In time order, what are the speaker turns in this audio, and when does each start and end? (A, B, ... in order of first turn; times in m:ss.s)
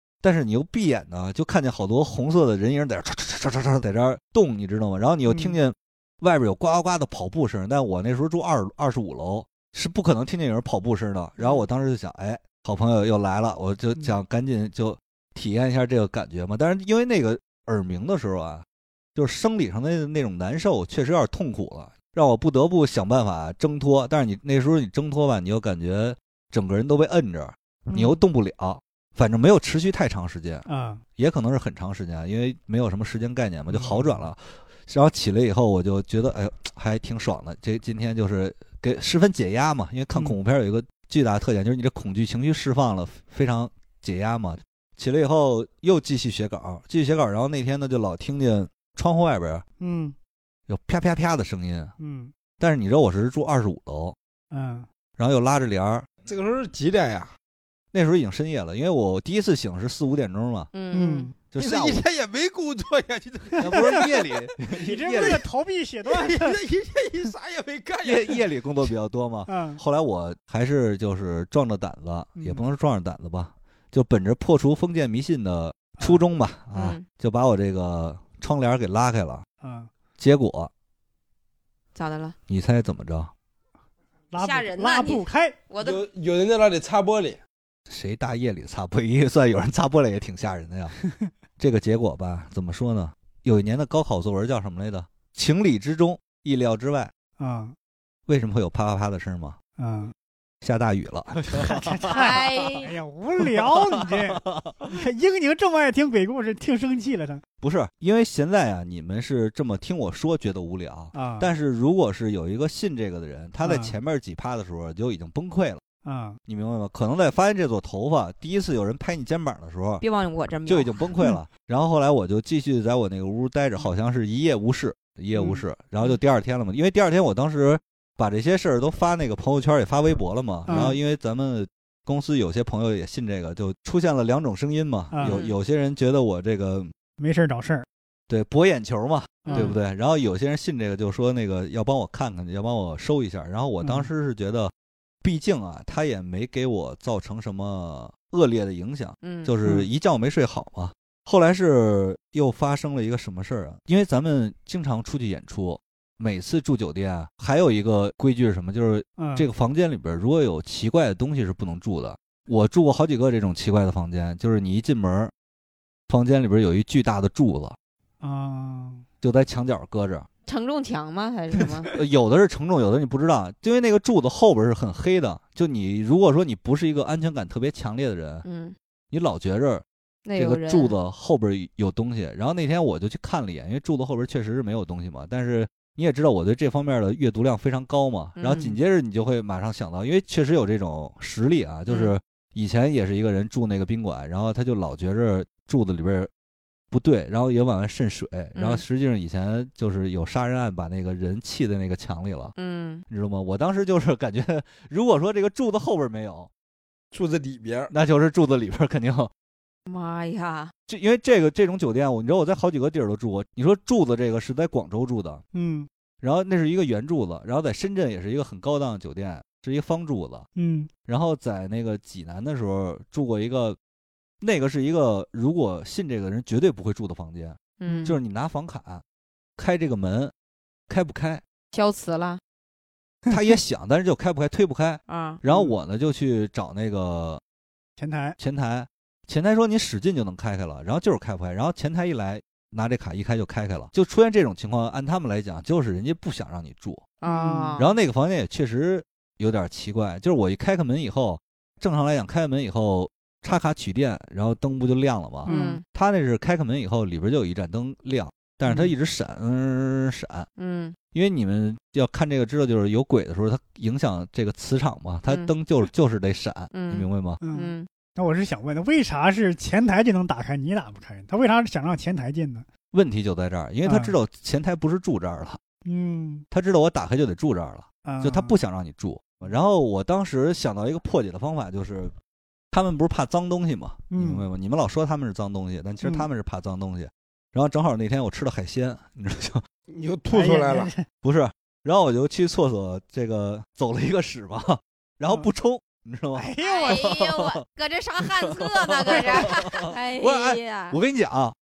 0:00.2-0:30.6 A
0:05.3-0:05.6 B
0:11.4-0:11.6 C
0:30.6-0:31.0 B
0:31.2-0:49.6 A
0:33.7-0:34.2 B
0:49.8-0:50.1 B
0:50.7-0:51.9 A
0:52.0-0:52.3 B
0:52.6-0:54.2 A
0:54.5-0:54.9 B
0:55.2-0:56.1 A
0:56.2-0:57.3 D
0:57.9-1:00.7 A
1:00.7-1:01.3 C
1:00.9-1:01.3 B
1:01.5-1:02.0 A
1:01.6-1:04.2 D
1:03.6-1:05.4 A
1:03.6-1:04.0 B
1:04.8-1:06.6 B
1:06.1-1:08.4 D
1:08.0-1:19.4 A
1:09.5-1:09.8 B
1:12.4-1:12.6 B
1:16.7-1:17.0 C
1:19.6-1:19.9 B
1:20.2-1:20.7 A
1:21.9-1:22.3 C
1:22.5-1:23.3 A
1:24.3-1:25.6 B
1:24.4-1:26.0 C
1:25.8-1:27.4 D
1:27.9-1:31.0 A
1:31.6-1:37.1 A
1:37.4-1:37.8 B
1:38.3-1:39.6 A
1:39.8-1:40.1 B
1:40.6-1:42.4 A
1:41.5-1:47.4 B
1:42.1-1:42.9 C
1:43.4-1:45.0 A
1:47.6-1:55.8 A
1:51.1-1:51.5 B
1:53.6-1:53.9 B
1:56.0-1:56.4 B
1:56.5-2:00.0 A
2:00.0-2:01.0 C
2:00.7-2:16.9 A
2:05.3-2:05.6 B
2:10.6-2:10.9 B
2:10.7-2:10.9 C
2:15.1-2:15.4 B
2:15.2-2:15.6 C
2:17.2-2:17.8 B
2:18.3-2:45.3 A
2:19.4-2:19.7 B
2:19.5-2:19.8 C
2:23.8-2:24.1 B
2:29.2-2:29.5 C
2:39.2-2:39.5 B
2:46.1-2:47.8 A
2:48.2-2:49.0 B
2:49.2-2:50.3 A
2:50.4-2:51.9 C
2:51.9-2:58.4 A
2:58.4-2:58.7 C
2:59.1-2:59.8 A
3:00.2-3:00.9 C
3:00.4-3:16.3 A
3:08.4-3:08.8 C
3:16.9-3:22.5 A
3:18.5-3:18.8 C
3:22.6-3:23.0 C
3:23.1-3:26.5 A
3:27.1-3:27.9 D
3:27.9-3:29.3 A
3:29.8-3:30.7 C
3:30.9-3:35.4 A
3:35.5-3:35.9 B
3:36.2-3:40.4 A
3:40.6-3:40.9 B
3:41.1-3:43.8 A
3:44.4-3:49.0 A
3:47.8-3:48.1 C
3:47.8-3:48.1 B
3:49.6-3:50.3 A
3:50.9-3:51.4 A
3:51.7-3:52.4 C
3:53.3-3:57.4 A
3:55.1-3:55.4 C
3:58.0-3:58.4 B
3:58.4-4:07.1 A
4:07.2-4:07.9 C
4:07.2-4:07.8 B
4:07.8-4:20.5 A
4:15.4-4:15.8 C
4:15.4-4:15.8 B
4:20.6-4:21.0 C
4:21.1-4:27.4 A
4:26.7-4:27.9 C
4:27.4-4:32.6 B
4:32.9-4:35.6 A
4:33.8-4:34.1 B
4:35.8-4:36.4 B
4:36.5-4:42.1 A
4:38.0-4:38.6 B
4:42.7-4:49.6 A
4:44.1-4:44.4 B
4:49.9-4:50.9 D
4:50.3-4:51.1 B
4:51.2-4:57.6 A
4:56.3-4:57.0 B
4:56.6-5:01.0 C
4:58.2-5:01.5 A